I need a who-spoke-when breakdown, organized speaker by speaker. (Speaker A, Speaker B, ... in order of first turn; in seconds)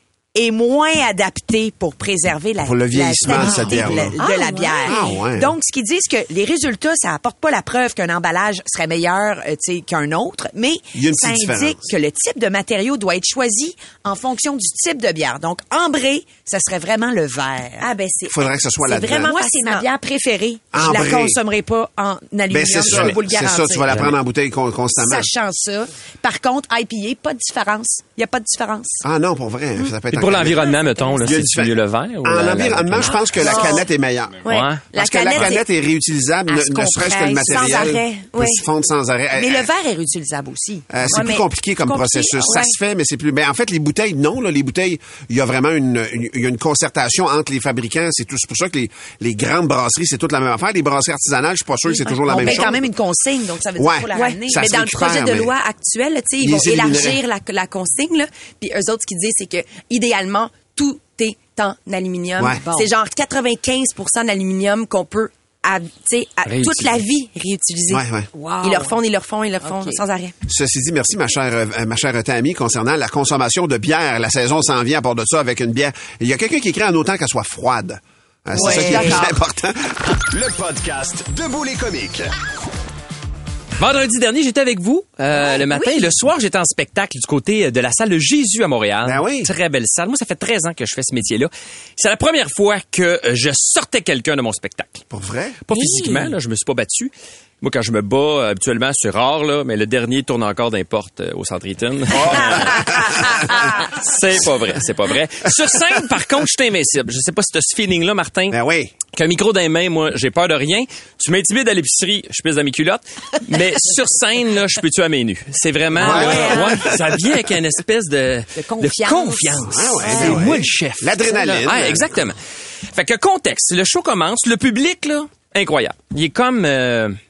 Speaker A: 0.3-17.9, 18.9-23.9, 24.9-29.0, 37.1-38.0, 39.3-41.3, 52.3-54.6, 62.6-62.9, 68.3-69.0, 69.7-70.0, 78.5-79.3, 95.7-96.3, 116.0-116.7, 118.6-120.3
Speaker B: 2.6-4.2, 4.8-5.5, 10.9-11.8, 18.3-19.3, 20.7-21.4, 22.5-25.3, 29.0-39.7, 40.9-52.9, 53.8-55.5, 56.4-57.2, 62.4-62.6, 67.9-68.3, 70.5-80.2, 89.0-89.5, 95.1-95.6, 102.1-103.1, 108.5-108.9, 116.0-117.0, 119.6-122.1
Speaker C: 4.2-5.2, 17.8-19.9, 33.1-33.9, 34.4-35.7, 36.5-38.6, 41.1-42.8, 52.0-52.6, 54.1-68.0, 68.6-70.3, 78.6-79.4
Speaker D: 23.9-24.2, 30.1-33.3, 34.5-35.5, 66.5-67.0, 83.8-95.0, 95.7-108.6, 109.1-122.4, 122.9-127.2
Speaker E: 80.3-82.3